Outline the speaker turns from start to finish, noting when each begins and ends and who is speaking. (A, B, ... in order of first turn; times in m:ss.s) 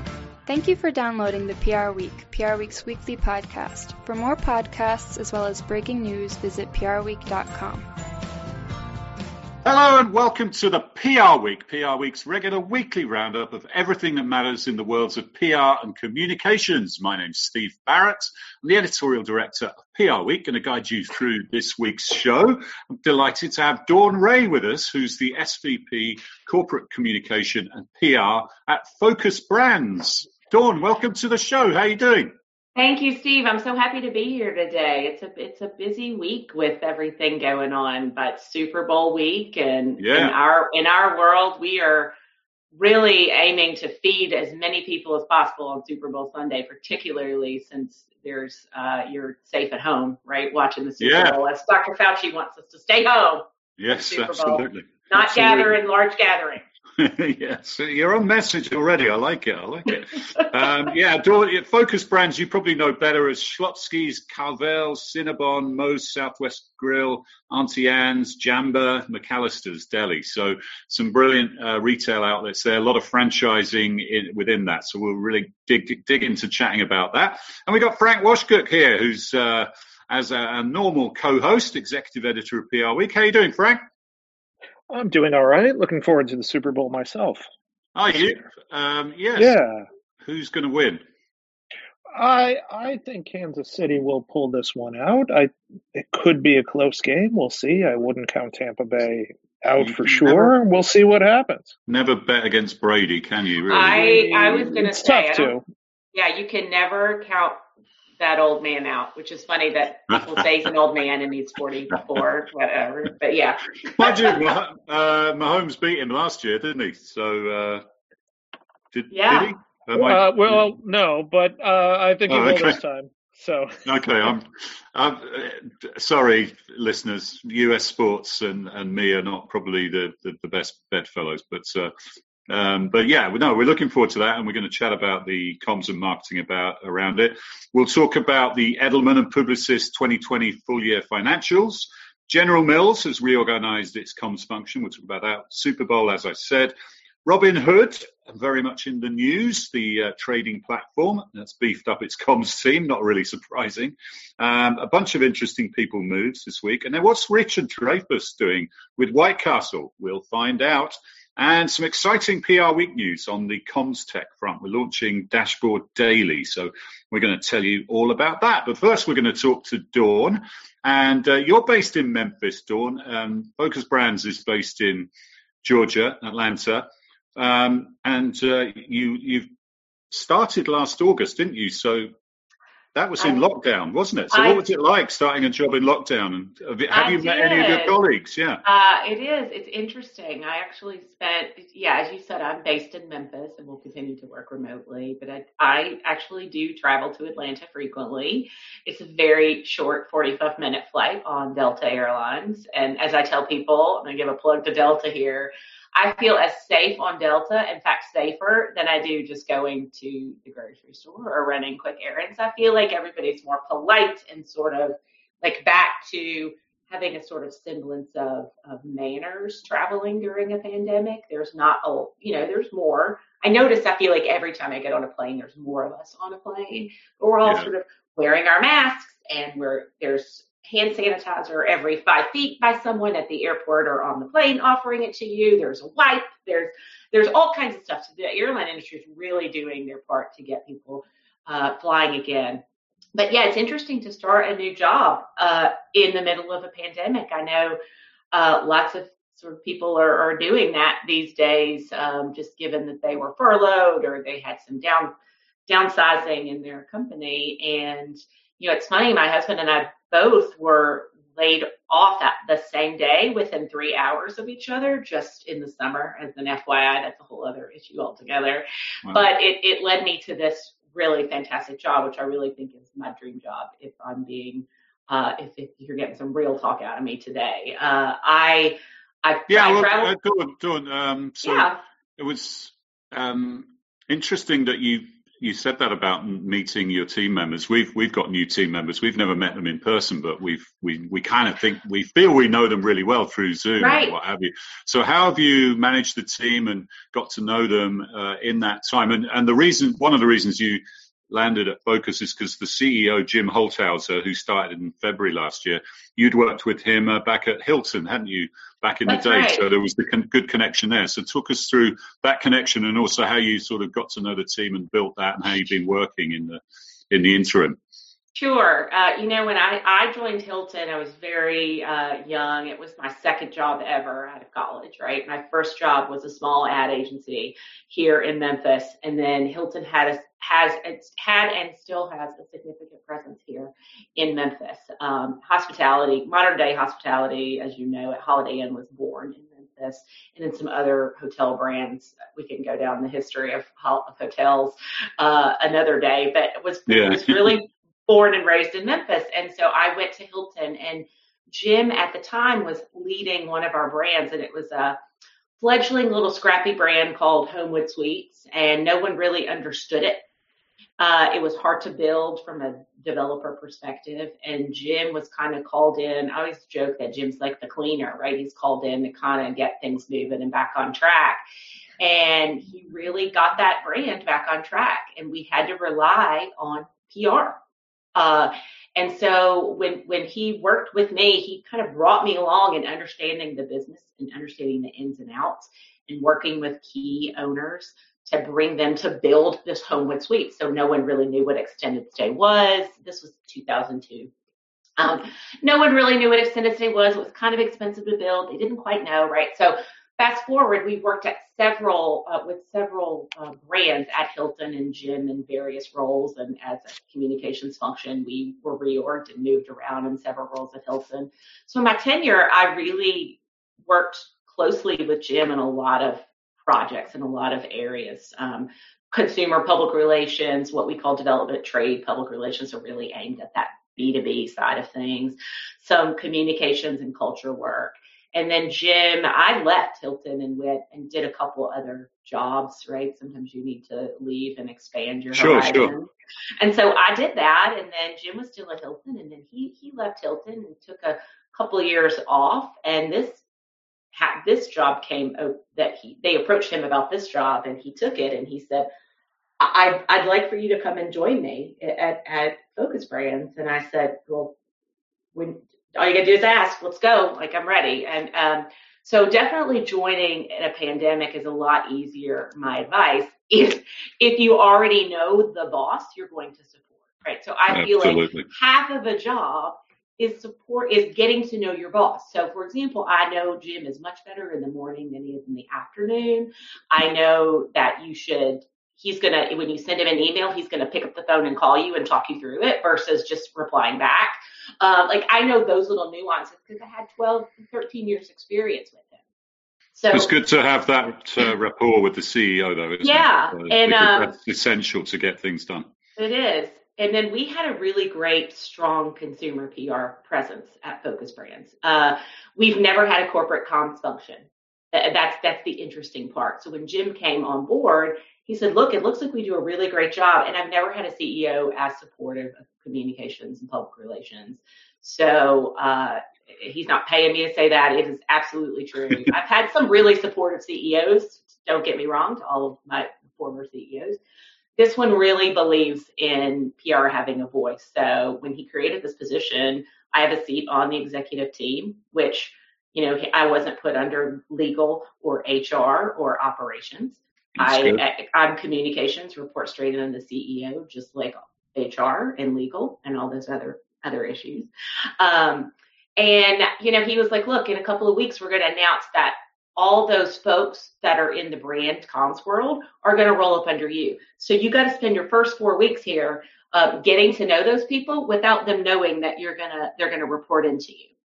0:00.4-0:07.9 A
0:09.6-0:32.3 B
0:32.8-0:42.1 C
0:40.0-0:40.3 B
0:42.7-0:56.6 C
0:51.0-0:51.4 B
0:53.8-0:55.8 B
0:57.0-1:23.8 B
1:24.9-1:27.4 D
1:28.0-1:29.6 B
1:29.4-1:29.8 D
1:30.2-1:31.0 B
1:32.1-1:41.7 D
1:39.8-1:40.6 B
1:41.9-1:44.3 B
1:43.7-1:45.5 C
1:43.9-1:45.6 D
1:46.1-1:47.6 C
1:48.2-1:54.4 C
1:54.0-1:57.8 B
1:58.9-2:00.6 B
1:59.1-1:59.5 C
1:59.9-2:03.8 D
2:02.3-2:02.8 B
2:03.8-2:11.9 B
2:12.5-2:26.7 B
2:27.2-2:55.1 B
2:55.6-2:59.5 B
3:00.1-3:02.1 B
3:02.9-3:08.6 B
3:04.3-3:04.6 C
3:06.9-3:08.0 C
3:08.6-4:02.6 C
3:47.4-3:47.7 B
4:03.2-4:07.8 C
4:08.3-4:15.1 C
4:15.7-4:40.1 C
4:39.5-5:17.8 B
4:41.4-4:41.8 C
4:53.8-4:54.1 C
5:09.1-5:09.6 C
5:18.4-5:55.0 C
5:46.9-5:47.5 B
5:55.6-6:00.2 C
6:01.0-6:11.4 C
6:12.0-6:17.6 C
6:18.1-6:34.3 C
6:35.0-7:23.4 C
7:15.3-7:15.9 B
7:24.1-7:28.9 C
7:29.6-7:34.5 C
7:35.3-8:09.2 C
7:47.7-7:48.5 B
8:09.9-8:10.3 C
8:10.1-8:15.9 B
8:13.0-8:14.3 C
8:16.2-8:44.2 C
8:44.8-9:21.1 C
8:57.6-8:58.0 B